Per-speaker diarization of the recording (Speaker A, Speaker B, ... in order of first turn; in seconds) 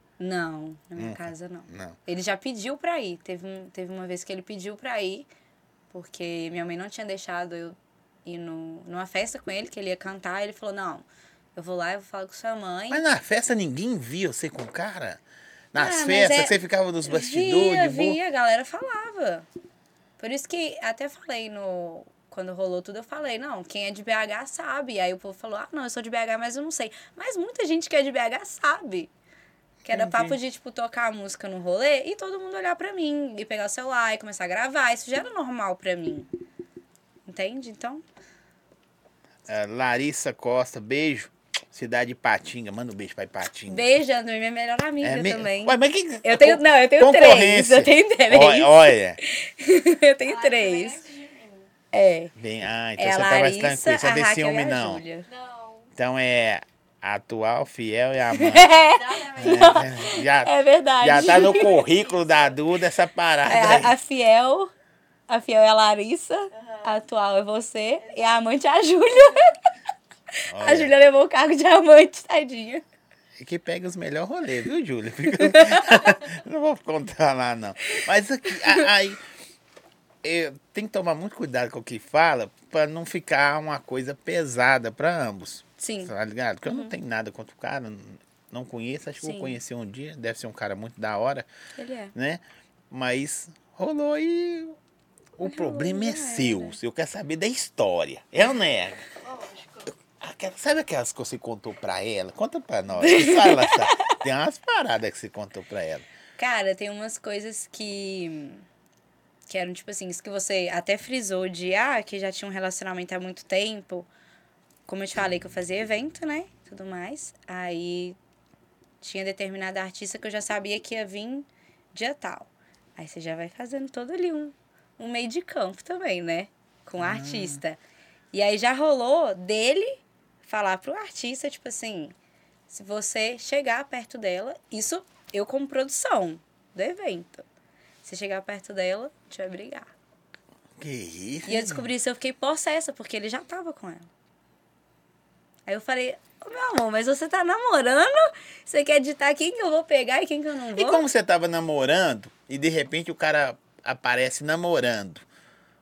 Speaker A: 0.2-5.3, 5.9-13.1, 15.8-19.5, 20.2-29.1, 29.9-36.3, 37.3-38.0, 43.7-51.0, 51.9-52.3, 53.0-55.3, 58.3-61.8, 63.5-64.7, 65.3-69.6, 70.3-72.8, 75.3-76.3, 85.8-86.1, 86.7-86.9, 89.2-89.6, 91.8-92.1, 95.4-96.8, 102.9-104.2, 106.4-108.6, 109.5-114.1, 114.9-118.2, 119.0-127.8, 128.3-132.1, 132.7-137.4, 138.0-139.9, 141.4-144.1, 145.7-151.1
Speaker B: 1.0-2.0, 12.9-15.2, 15.7-18.2, 29.8-30.4, 39.5-43.9, 45.0-49.2, 52.4-55.0, 55.9-58.7, 59.4-64.0, 70.5-70.9, 73.4-79.2, 80.2-91.5, 92.1-94.8, 95.4-99.0, 100.2-106.1, 127.0-127.6, 140.8-141.9, 150.8-155.2
Speaker C: 50.2-51.7, 55.3-55.9, 58.5-60.3, 61.2-62.5, 66.5-67.0, 99.2-99.9